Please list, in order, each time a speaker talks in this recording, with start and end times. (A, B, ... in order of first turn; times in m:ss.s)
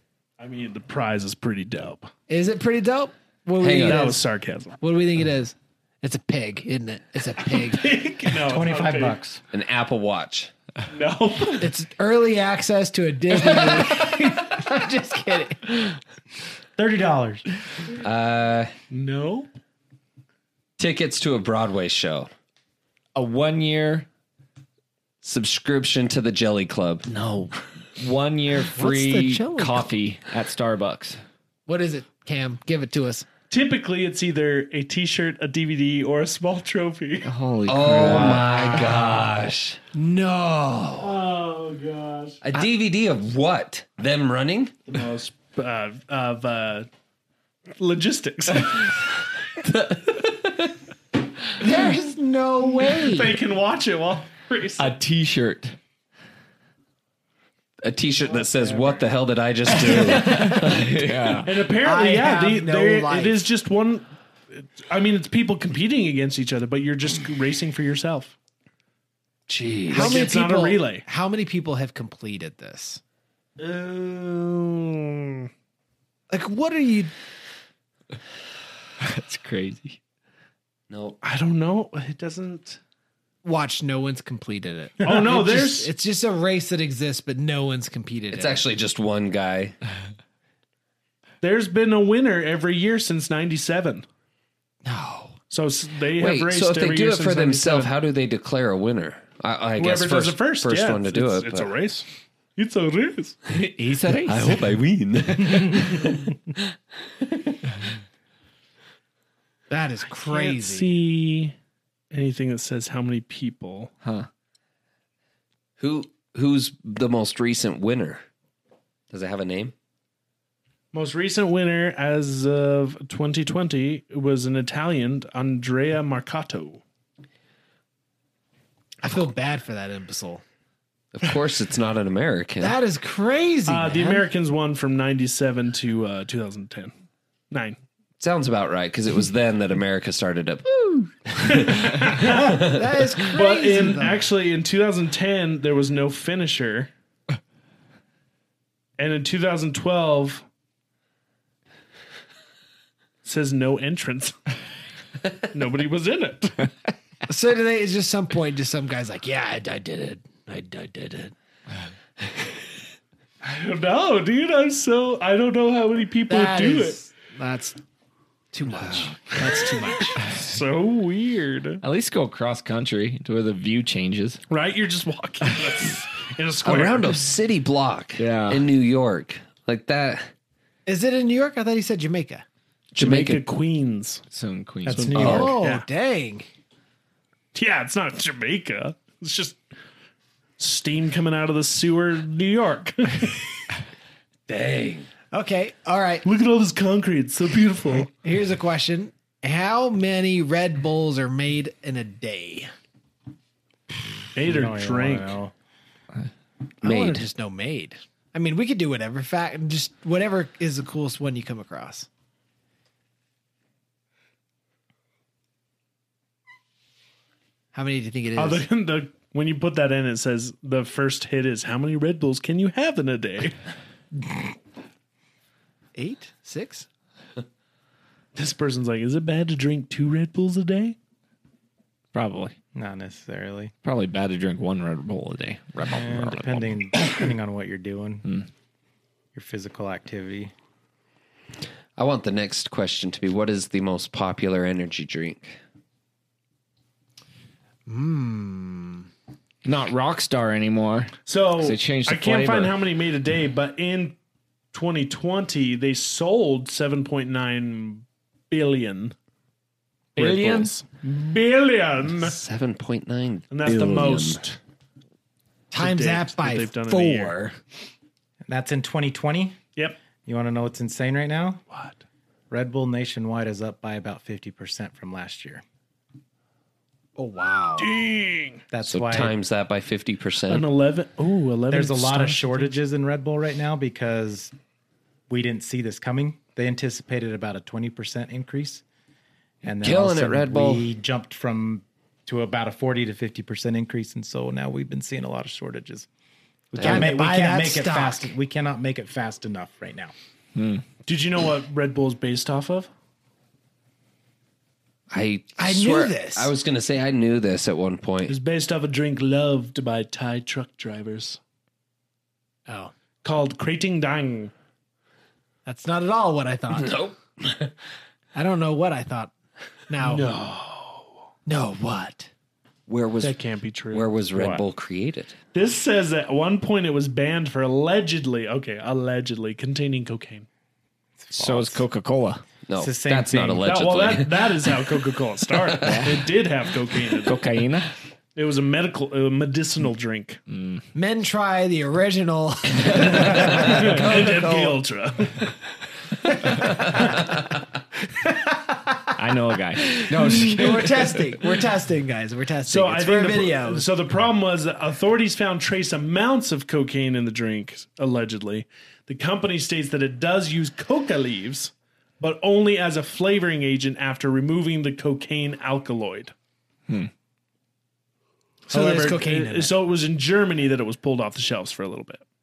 0:00.4-0:02.1 A
0:02.3-0:04.2 B
0:03.6-0:04.1 C
0:03.8-0:04.8 A
0:04.8-0:07.9 B
0:07.5-0:09.2 A
0:08.4-0:09.4 D
0:09.5-0:10.5 C
0:10.9-0:11.7 A
0:11.6-0:15.9 B
0:16.8-0:17.4 D
0:18.0-0:18.7 C
0:18.9-0:19.5 A
0:20.8-0:22.3 C
0:23.2-0:24.1 E
0:25.2-0:27.0 C
0:27.1-0:31.2 E
0:28.7-0:29.9 B
0:31.7-0:33.3 B
0:33.5-0:37.3 A
0:37.2-0:38.9 E
0:37.7-0:39.8 C
0:39.9-0:41.2 B
0:41.0-0:42.4 A
0:42.4-0:44.7 C
0:44.9-0:46.9 A
0:47.8-0:49.0 A
0:49.7-0:50.2 C
0:51.6-0:53.4 B
0:53.1-0:54.9 A
0:54.8-0:55.8 E
0:57.8-1:01.4 C
0:59.8-1:01.5 E
0:59.8-1:00.7 B
1:01.4-1:08.4 A
1:01.8-1:03.4 B
1:09.5-1:10.2 C
1:09.9-1:13.0 B
1:09.9-1:11.0 A
1:13.6-1:15.5 A
1:16.3-1:17.1 B
1:19.0-1:20.0 E
1:20.9-1:21.2 C
1:21.2-1:22.8 A
1:23.4-1:28.7 B
1:25.0-1:25.9 A
1:28.3-1:29.8 C
1:31.4-1:34.0 A
1:34.8-1:35.4 B
1:35.5-1:37.9 A
1:36.2-1:41.7 C
1:39.8-1:42.1 A
1:42.6-1:43.4 A
1:43.5-1:44.8 E
1:44.2-1:46.4 C
1:49.7-1:51.0 B
1:50.2-1:51.6 A
1:52.1-1:53.9 A
1:54.0-1:54.3 E
1:55.8-1:58.2 C
1:59.1-1:59.7 C
2:00.9-2:06.8 A
2:09.0-2:10.4 B
2:11.1-2:12.8 C
2:12.6-2:14.2 B
2:13.7-2:16.9 A
2:17.5-2:17.8 A
2:18.2-2:22.9 C
2:21.4-2:22.6 A
2:22.6-2:24.2 B
2:23.3-2:26.9 A
2:29.0-2:30.4 A
2:33.2-2:34.4 A
2:35.5-2:36.7 A
2:37.3-2:41.3 B
2:43.4-2:47.0 A
2:46.3-2:47.8 B
2:48.5-2:50.2 B
2:49.9-2:51.8 A
2:51.8-2:54.4 E
2:54.5-2:57.2 A
2:56.6-3:00.3 C
2:58.2-2:58.7 E
3:00.9-3:02.4 B
3:03.0-3:03.4 C
3:03.0-3:04.2 A
3:04.3-3:05.6 E
3:04.8-3:05.5 D
3:05.0-3:05.8 A
3:05.2-3:06.5 B
3:07.5-3:09.6 A
3:10.6-3:13.6 A
3:14.5-3:15.1 C
3:15.3-3:16.3 B
3:16.2-3:18.1 A
3:18.2-3:22.7 B
3:24.4-3:25.4 A
3:24.5-3:25.5 D
3:26.8-3:32.1 B
3:26.8-3:27.2 C
3:37.7-3:38.6 B
3:38.4-3:43.6 A
3:46.0-3:46.9 B
3:48.4-3:51.0 A
3:52.1-3:52.6 E
3:52.7-3:53.7 D
3:53.8-3:56.8 E
3:55.9-3:58.2 D
3:59.4-4:00.5 D
4:02.0-4:05.6 C
4:07.9-4:09.1 B
4:09.6-4:12.8 E
4:11.3-4:14.2 A
4:14.7-4:19.1 A
4:20.2-4:20.7 E
4:20.2-4:22.4 A
4:22.2-4:24.5 C
4:23.5-4:24.6 A
4:25.7-4:27.6 B
4:25.7-4:27.4 A
4:28.5-4:29.6 D
4:30.2-4:31.6 D
4:31.7-4:32.0 A
4:32.5-4:35.6 D
4:37.2-4:37.9 B
4:37.8-4:38.6 A
4:38.7-4:39.4 D
4:38.9-4:40.7 C
4:40.5-4:42.7 A
4:41.7-4:44.5 D
4:45.3-4:48.8 D
4:49.6-4:56.1 D
4:49.8-4:50.9 C
4:56.7-5:00.1 D
4:56.8-4:58.3 B
5:00.6-5:00.8 E
5:01.1-5:02.9 A
5:05.1-5:08.4 C
5:05.6-5:06.5 B
5:08.3-5:11.4 A
5:13.2-5:14.5 A
5:15.7-5:17.0 B
5:16.7-5:17.7 C
5:18.3-5:19.3 B
5:19.9-5:20.3 B
5:20.0-5:21.2 A
5:21.5-5:22.3 B
5:22.9-5:23.4 C
5:23.2-5:24.1 A
5:23.9-5:25.4 C
5:24.4-5:24.6 D
5:25.5-5:30.5 A
5:31.2-5:31.8 D
5:31.4-5:32.4 E
5:32.7-5:34.5 C
5:32.8-5:33.8 D
5:33.6-5:37.4 A
5:35.8-5:36.3 E
5:37.2-5:37.9 E
5:38.4-5:40.4 A
5:40.5-5:40.8 E
5:40.9-5:44.8 B
5:43.2-5:45.5 A
5:46.6-5:47.2 B
5:48.2-5:48.5 B
5:49.2-5:51.4 E
5:49.8-5:53.9 B
5:52.7-6:06.3 A
6:08.7-6:12.2 A
6:08.7-6:09.7 B